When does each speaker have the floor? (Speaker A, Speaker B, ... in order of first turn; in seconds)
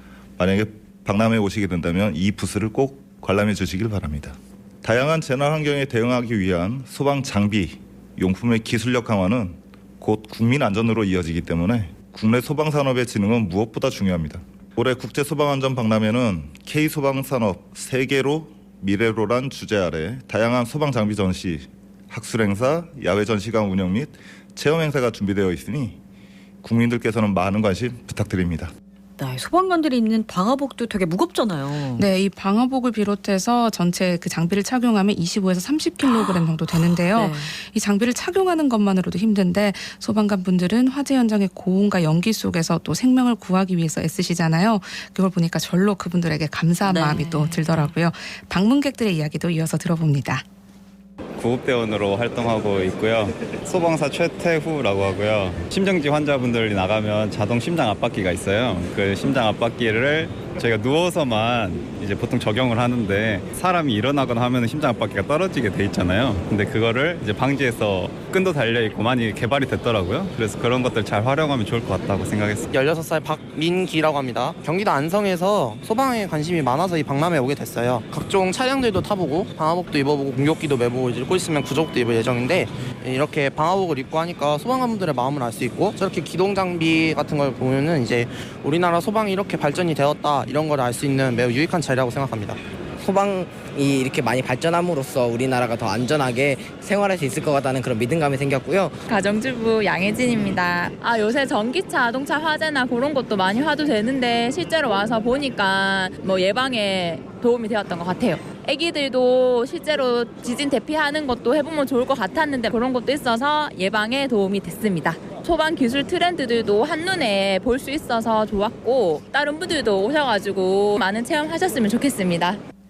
Speaker A: 0.4-26.0, 26.6-28.7
Speaker B: 29.2-32.1, 36.1-37.5, 46.9-47.9
Speaker C: 32.0-50.4
Speaker D: 51.4-72.7
Speaker E: 72.7-92.6
Speaker F: 93.0-98.9
Speaker G: 99.1-122.6